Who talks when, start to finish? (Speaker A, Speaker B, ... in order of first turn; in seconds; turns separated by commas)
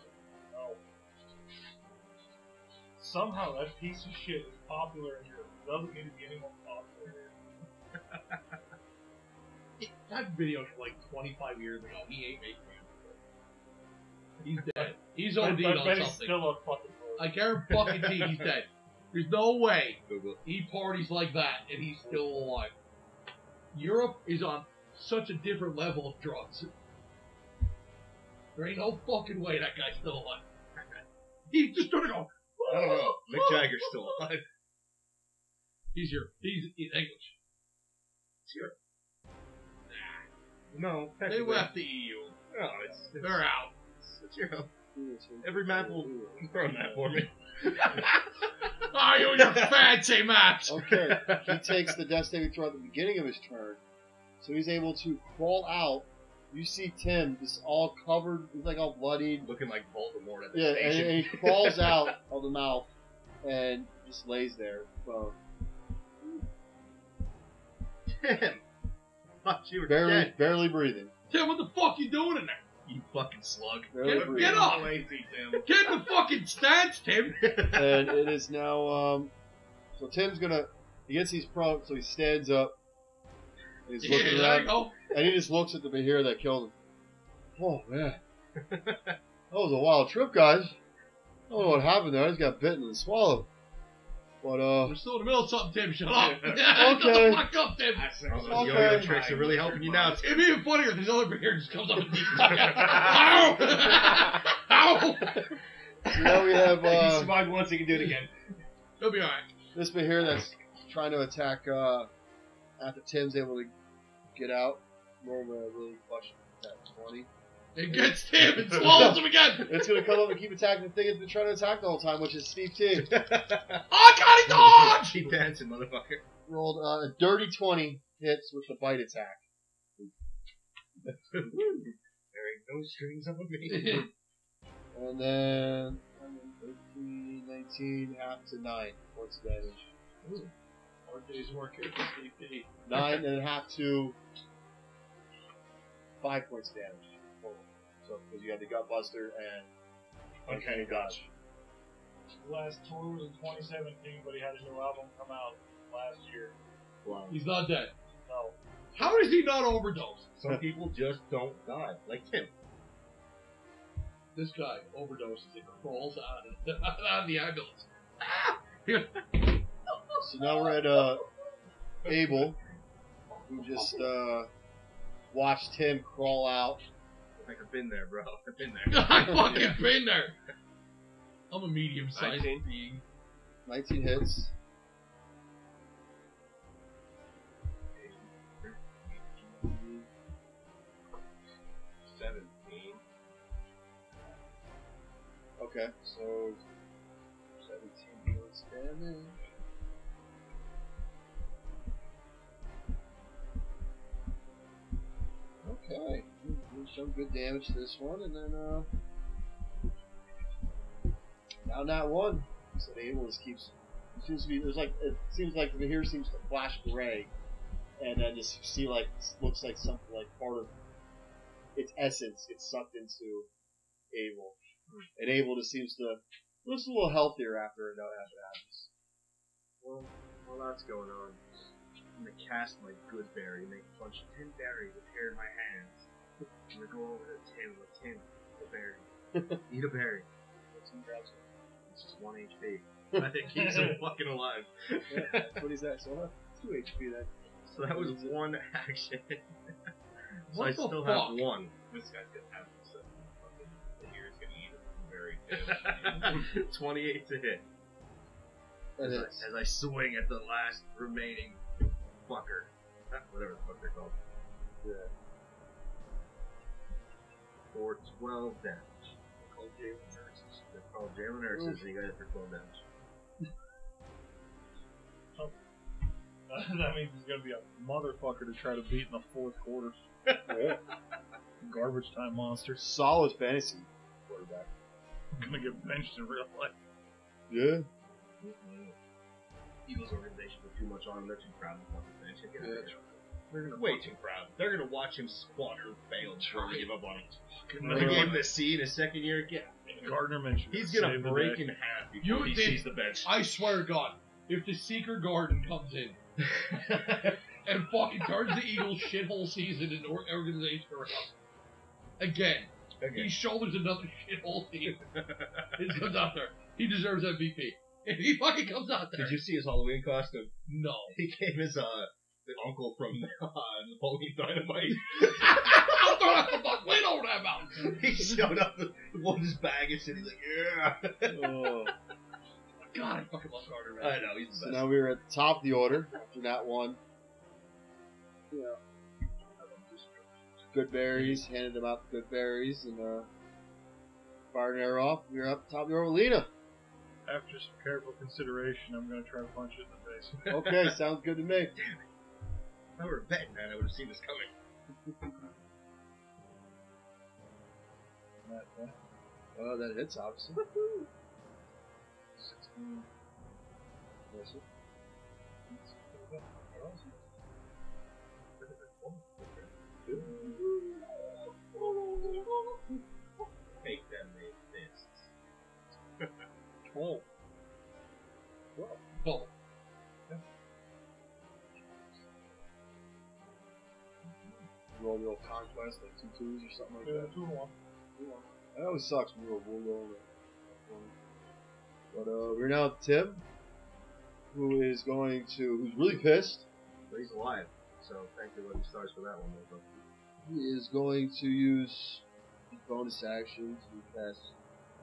Speaker A: 0.5-0.8, Speaker A: 3.0-7.3, Speaker B: 9.8-13.2, Speaker C: 14.4-14.9, Speaker B: 14.4-16.5, Speaker A: 15.3-17.3, Speaker B: 17.2-22.7, Speaker C: 17.7-18.4, Speaker C: 20.1-20.4, Speaker B: 23.7-26.7, Speaker B: 28.5-30.4, Speaker B: 31.5-34.1, Speaker C: 32.7-34.4, Speaker B: 35.9-37.4, Speaker C: 38.5-38.8, Speaker B: 39.9-40.2, Speaker C: 40.7-41.7, Speaker B: 41.3-42.4, Speaker C: 42.5-43.4, Speaker B: 43.2-43.7, Speaker C: 44.0-44.7, Speaker D: 44.9-47.2, Speaker C: 45.4-48.1, Speaker B: 47.8-48.2, Speaker B: 48.8-51.4, Speaker C: 49.3-49.8, Speaker D: 50.6-53.8, Speaker D: 54.4-59.5, Speaker C: 59.4-62.1, Speaker D: 60.5-62.9, Speaker D: 63.4-65.4, Speaker C: 68.1-68.6, Speaker C: 69.4-70.3, Speaker D: 69.8-71.1, Speaker B: 71.3-72.6, Speaker C: 72.8-75.6, Speaker D: 73.9-74.7, Speaker B: 74.0-75.0, Speaker E: 74.0-75.6, Speaker B: 75.6-77.4, Speaker C: 77.4-78.1, Speaker D: 77.7-79.3, Speaker D: 80.0-82.8, Speaker D: 83.9-86.7, Speaker B: 84.0-84.9, Speaker D: 87.6-88.2, Speaker C: 88.6-89.1, Speaker D: 89.5-90.8, Speaker D: 91.5-93.5, Speaker D: 94.4-95.0, Speaker B: 94.8-98.1, Speaker D: 96.7-97.5, Speaker E: 97.9-100.2, Speaker C: 98.3-100.5, Speaker D: 98.5-99.2, Speaker B: 100.1-105.4, Speaker C: 102.2-104.2, Speaker D: 106.1-107.5, Speaker C: 106.2-108.3, Speaker B: 109.0-109.4, Speaker D: 109.7-112.1, Speaker D: 112.8-113.7, Speaker D: 114.3-117.3, Speaker B: 117.7-120.0, Speaker D: 117.9-123.2, Speaker C: 122.9-123.8, Speaker B: 123.9-125.3, Speaker C: 124.4-126.2, Speaker D: 126.5-129.4, Speaker C: 131.1-134.1, Speaker B: 133.7-134.1, Speaker D: 134.9-139.9, Speaker C: 140.2-140.5, Speaker B: 141.0-142.7, Speaker D: 142.8-144.2, Speaker D: 146.2-149.7, Speaker C: 150.4-151.3, Speaker D: 150.5-151.2, Speaker A: 152.4-156.6, Speaker C: 157.0-157.4, Speaker B: 157.3-157.9, Speaker A: 158.2-158.6, Speaker B: 158.9-160.3, Speaker C: 160.3-162.5, Speaker B: 164.3-169.6, Speaker D: 170.2-171.2, Speaker C: 172.0-172.5, Speaker D: 172.0-172.6, Speaker D: 173.5-174.5, Speaker D: 175.3-176.8, Speaker C: 177.4-179.7, Speaker B: 178.9-180.3, Speaker B: 181.5-182.7, Speaker E: 182.1-183.0, Speaker D: 183.7-184.5, Speaker E: 188.0-188.3, Speaker E: 188.8-189.5, Speaker D: 189.6-190.1, Speaker E: 192.1-193.0, Speaker D: 195.6-196.6, Speaker D: 197.6-199.4, Speaker D: 205.6-208.9, Speaker D: 211.6-217.3, Speaker D: 218.0-220.7, Speaker D: 221.7-223.5, Speaker D: 224.1-224.6, Speaker D: 225.2-228.9, Speaker C: 229.8-231.4, Speaker C: 232.2-236.1, Speaker C: 236.7-239.1, Speaker D: 239.3-239.6, Speaker C: 239.7-240.3, Speaker D: 240.7-241.5, Speaker C: 241.9-245.6, Speaker D: 245.1-248.4, Speaker C: 247.7-249.4, Speaker C: 250.5-251.7, Speaker B: 250.5-251.4, Speaker E: 251.9-256.4, Speaker C: 255.6-257.6, Speaker D: 259.0-259.5, Speaker C: 259.0-261.6, Speaker C: 262.2-264.2, Speaker D: 264.8-265.1, Speaker C: 267.7-268.9, Speaker C: 270.1-272.8, Speaker D: 271.5-271.8, Speaker A: 276.5-280.0, Speaker D: 280.5-280.8, Speaker A: 281.6-282.8, Speaker D: 282.8-284.7, Speaker A: 285.4-286.7, Speaker D: 287.5-287.9, Speaker C: 288.4-289.0, Speaker C: 289.8-293.0, Speaker D: 292.6-292.9, Speaker C: 293.7-299.9, Speaker B: 296.4-296.9, Speaker B: 297.5-298.5, Speaker A: 297.8-298.4, Speaker D: 297.9-298.3, Speaker A: 299.9-301.6, Speaker C: 300.7-303.7, Speaker B: 302.2-306.2, Speaker C: 306.4-307.4, Speaker B: 307.6-311.3, Speaker B: 312.2-315.0, Speaker C: 313.0-313.3, Speaker C: 314.9-315.9, Speaker B: 315.8-319.4, Speaker C: 319.1-320.5, Speaker B: 320.7-321.2, Speaker C: 321.1-326.2, Speaker B: 325.1-328.3, Speaker C: 327.8-331.5, Speaker D: 331.3-331.9, Speaker B: 332.9-334.3, Speaker C: 334.0-334.9, Speaker D: 334.6-337.0, Speaker D: 338.5-338.8, Speaker C: 339.7-340.2, Speaker D: 340.7-343.3, Speaker D: 344.5-346.5, Speaker A: 347.2-350.4, Speaker C: 350.4-351.0, Speaker D: 350.5-351.7, Speaker C: 351.7-352.0, Speaker C: 353.0-354.5, Speaker D: 355.1-355.3, Speaker A: 358.4-358.9, Speaker D: 359.5-360.6, Speaker C: 360.6-361.1, Speaker D: 362.4-363.0, Speaker D: 364.3-364.6, Speaker A: 365.9-367.1, Speaker C: 368.6-370.5, Speaker D: 370.1-370.9, Speaker C: 373.8-375.1, Speaker E: 374.6-375.3, Speaker A: 376.9-377.2, Speaker B: 379.2-379.5, Speaker C: 384.2-384.6, Speaker D: 384.9-387.4, Speaker A: 387.0-387.7, Speaker D: 388.2-391.1, Speaker D: 392.1-393.4, Speaker D: 394.5-396.6, Speaker C: 397.1-400.0, Speaker D: 400.4-404.5